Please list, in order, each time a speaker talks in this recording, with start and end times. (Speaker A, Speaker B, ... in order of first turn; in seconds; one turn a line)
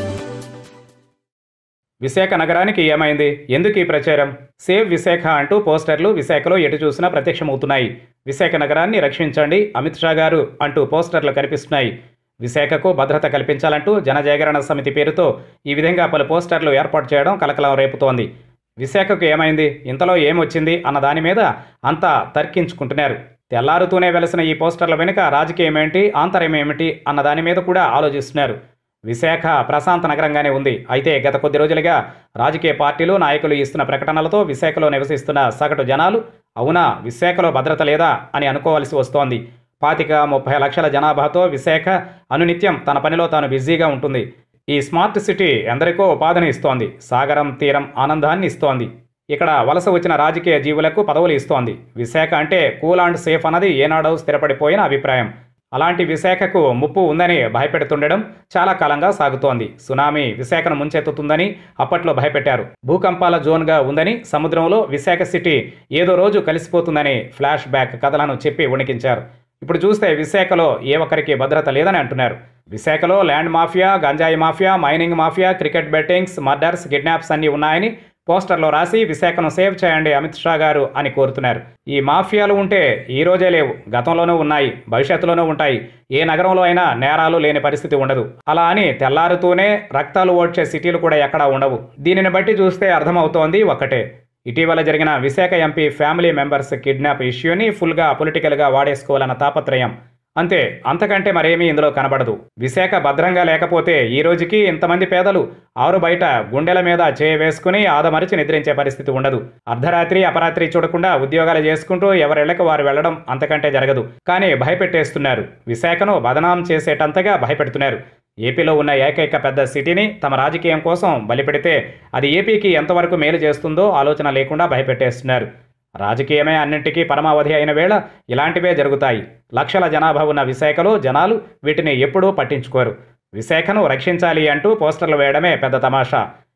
Speaker A: 2.0-18.3
Speaker A: 18.8-125.5
Speaker A: 126.0-136.2